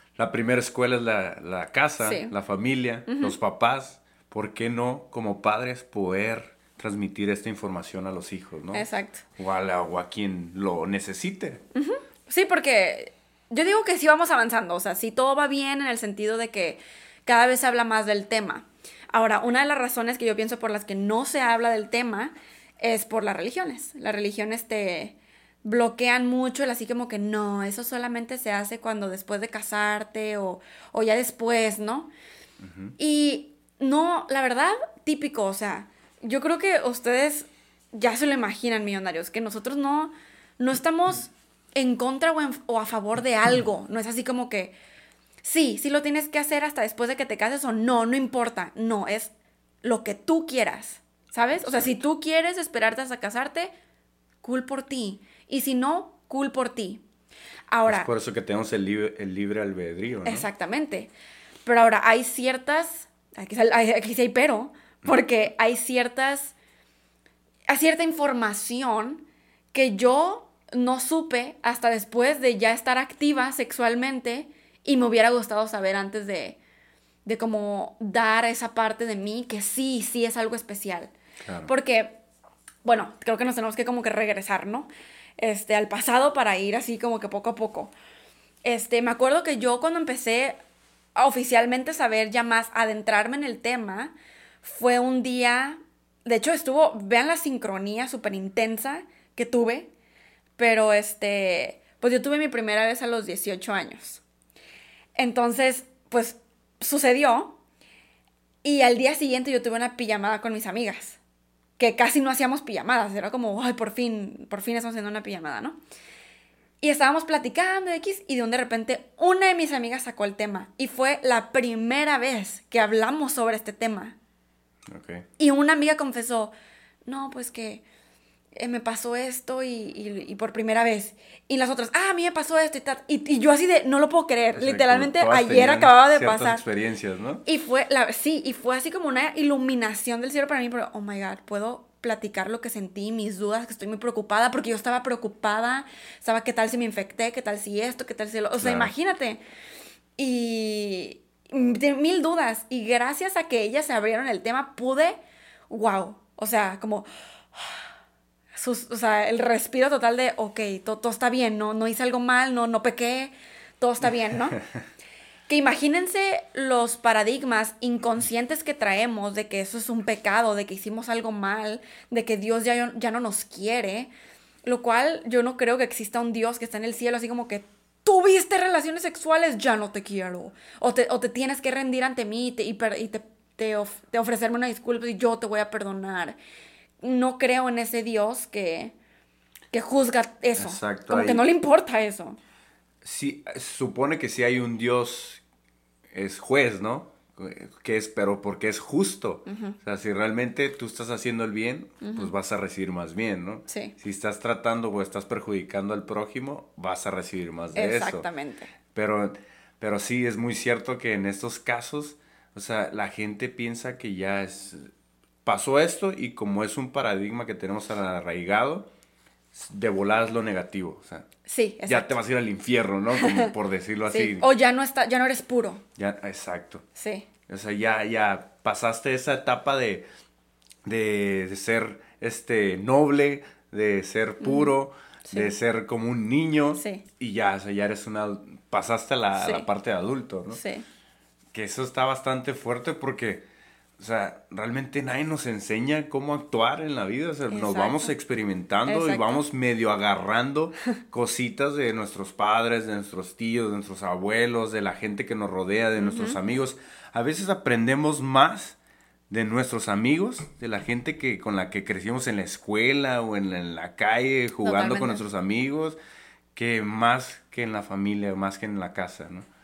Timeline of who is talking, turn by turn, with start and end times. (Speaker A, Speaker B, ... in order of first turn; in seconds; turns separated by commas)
Speaker A: 0.2-11.6, Speaker B: 2.0-2.3, Speaker B: 3.1-3.4, Speaker B: 8.7-9.3, Speaker B: 11.8-32.1, Speaker A: 32.6-32.9, Speaker B: 33.0-44.8, Speaker B: 45.4-49.3, Speaker B: 49.8-53.7, Speaker A: 51.6-51.9, Speaker B: 54.4-57.0, Speaker B: 57.7-58.1, Speaker A: 57.9-60.5, Speaker B: 60.2-61.1, Speaker B: 61.6-66.5, Speaker B: 67.7-76.6, Speaker B: 77.2-81.1, Speaker A: 81.4-81.7, Speaker B: 81.7-82.2, Speaker B: 82.8-87.9, Speaker B: 88.6-90.6, Speaker B: 91.2-99.9, Speaker B: 100.6-104.2, Speaker B: 105.2-107.6, Speaker B: 108.6-111.2, Speaker B: 111.8-115.8, Speaker B: 116.8-124.2, Speaker A: 124.9-125.3, Speaker B: 125.4-126.5, Speaker B: 127.1-127.8, Speaker B: 128.6-136.6, Speaker A: 134.6-137.4, Speaker B: 137.4-149.4, Speaker A: 148.6-148.9, Speaker B: 150.2-155.2, Speaker B: 155.7-157.8, Speaker B: 158.6-164.6, Speaker B: 165.5-174.1, Speaker B: 174.7-186.4, Speaker B: 187.0-188.9, Speaker B: 189.7-192.4, Speaker A: 190.6-191.5, Speaker A: 193.0-195.4, Speaker A: 196.1-208.3, Speaker B: 199.5-199.8, Speaker B: 202.0-202.3, Speaker B: 203.7-203.9, Speaker B: 207.8-208.7, Speaker A: 208.9-214.9, Speaker A: 215.4-218.9, Speaker A: 219.5-221.3, Speaker B: 221.5-222.2, Speaker A: 221.9-224.5, Speaker B: 223.2-223.5, Speaker B: 224.1-225.8, Speaker A: 226.0-226.8, Speaker B: 227.0-227.3, Speaker A: 227.5-230.1, Speaker A: 230.8-240.6, Speaker B: 234.4-234.7, Speaker B: 235.3-235.6, Speaker B: 236.8-237.0, Speaker B: 239.4-239.7, Speaker B: 240.5-240.9, Speaker A: 241.5-243.5, Speaker A: 244.0-258.8, Speaker B: 247.5-248.1, Speaker B: 248.9-249.4, Speaker B: 256.0-256.4, Speaker A: 259.3-266.0, Speaker B: 264.6-265.2, Speaker A: 266.5-269.5